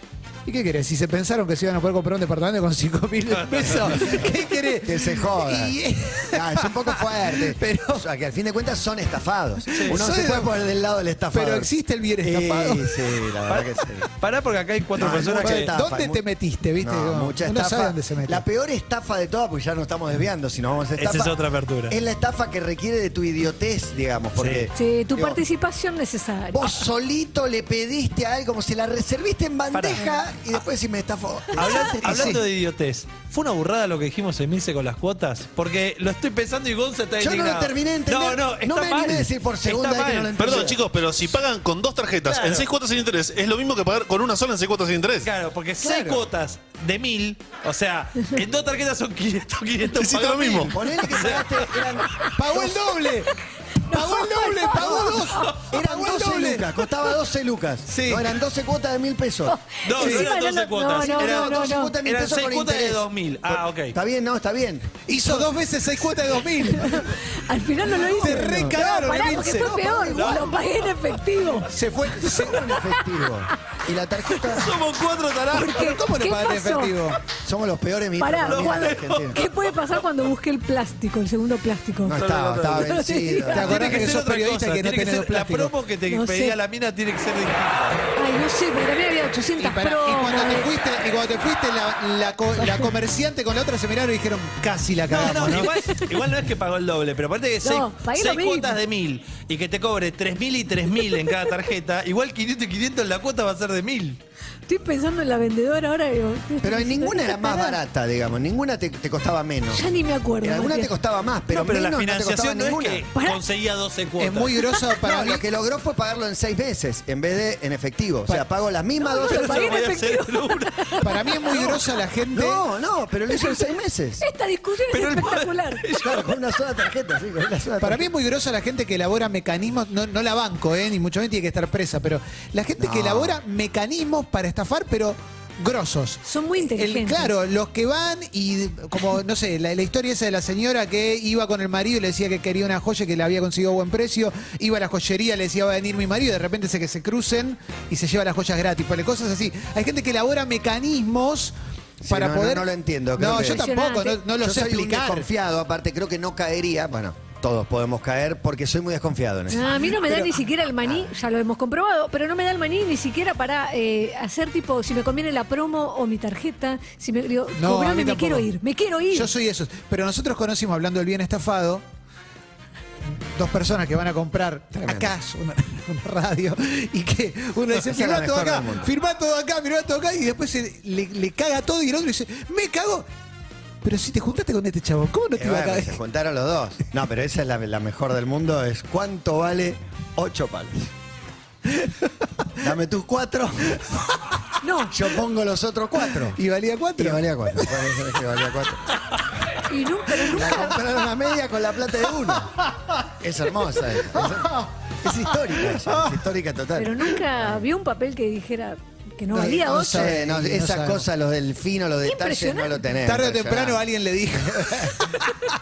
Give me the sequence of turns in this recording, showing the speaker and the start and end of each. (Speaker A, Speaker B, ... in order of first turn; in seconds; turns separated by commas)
Speaker A: 0.5-8.0, Speaker B: 3.3-4.2, Speaker C: 4.8-5.8, Speaker C: 6.3-14.1, Speaker B: 9.7-10.0, Speaker A: 9.7-10.5, Speaker A: 11.3-13.3, Speaker B: 13.5-15.7, Speaker C: 14.9-16.2, Speaker A: 15.0-18.4, Speaker C: 16.8-21.4, Speaker B: 21.0-21.9, Speaker C: 21.9-25.4, Speaker B: 24.4-24.7, Speaker D: 24.7-26.8, Speaker C: 26.5-32.4, Speaker B: 29.7-30.6, Speaker B: 31.5-40.8, Speaker A: 32.1-32.4, Speaker C: 37.2-40.9, Speaker E: 40.4-45.3, Speaker B: 42.1-42.7, Speaker B: 45.1-51.9, Speaker A: 45.8-46.2, Speaker E: 50.0-50.7, Speaker C: 50.5-53.0, Speaker A: 52.4-56.6, Speaker D: 53.8-55.5, Speaker C: 54.7-59.6, Speaker B: 57.9-58.4, Speaker D: 59.5-61.9, Speaker B: 59.8-64.0, Speaker A: 60.0-60.3, Speaker C: 61.0-65.4, Speaker A: 65.1-67.1, Speaker D: 66.6-71.7, Speaker A: 68.0-70.2, Speaker C: 68.4-68.8, Speaker C: 69.9-70.5, Speaker B: 70.1-70.5, Speaker A: 71.7-72.6, Speaker C: 72.2-74.7, Speaker D: 72.2-73.0, Speaker B: 74.5-75.9, Speaker D: 75.5-77.0, Speaker A: 75.7-77.2, Speaker C: 77.4-79.4, Speaker D: 78.2-83.7, Speaker B: 78.5-80.0, Speaker C: 82.0-84.0, Speaker B: 82.1-83.0, Speaker B: 83.5-88.0, Speaker A: 83.5-85.7, Speaker D: 86.1-86.6, Speaker D: 88.2-90.7, Speaker A: 89.6-95.7, Speaker B: 95.1-104.2, Speaker D: 95.5-96.1, Speaker D: 97.6-98.8, Speaker D: 101.0-101.5, Speaker D: 104.7-107.8, Speaker C: 106.6-109.8, Speaker D: 109.7-110.9, Speaker C: 110.4-113.0, Speaker B: 111.5-114.7, Speaker D: 113.1-113.4, Speaker A: 114.2-115.4, Speaker C: 115.0-119.7, Speaker D: 119.0-121.8, Speaker B: 119.2-121.0, Speaker A: 121.0-122.6, Speaker C: 122.3-124.2, Speaker D: 123.3-123.6, Speaker D: 124.2-125.8, Speaker B: 124.9-126.4, Speaker C: 126.0-128.1, Speaker A: 127.8-151.5, Speaker C: 132.8-133.4, Speaker D: 136.2-137.3, Speaker C: 152.0-153.7, Speaker A: 152.1-155.3, Speaker D: 153.3-154.2, Speaker C: 154.3-160.0, Speaker D: 159.5-169.3, Speaker A: 167.6-168.4, Speaker A: 169.1-171.8, Speaker A: 173.3-183.1, Speaker C: 174.8-175.1, Speaker C: 177.7-178.9, Speaker A: 183.8-186.0, Speaker C: 185.3-190.9, Speaker C: 192.6-194.0, Speaker D: 194.6-194.9, Speaker C: 194.9-196.4, Speaker A: 196.3-198.0, Speaker C: 197.0-198.8, Speaker D: 199.7-200.8, Speaker C: 200.3-202.6, Speaker C: 203.2-207.6, Speaker A: 204.1-204.7, Speaker A: 205.6-206.1, Speaker D: 206.8-210.1, Speaker A: 209.3-211.1, Speaker C: 209.4-213.8, Speaker D: 212.0-212.8, Speaker A: 213.0-215.3, Speaker C: 214.3-214.9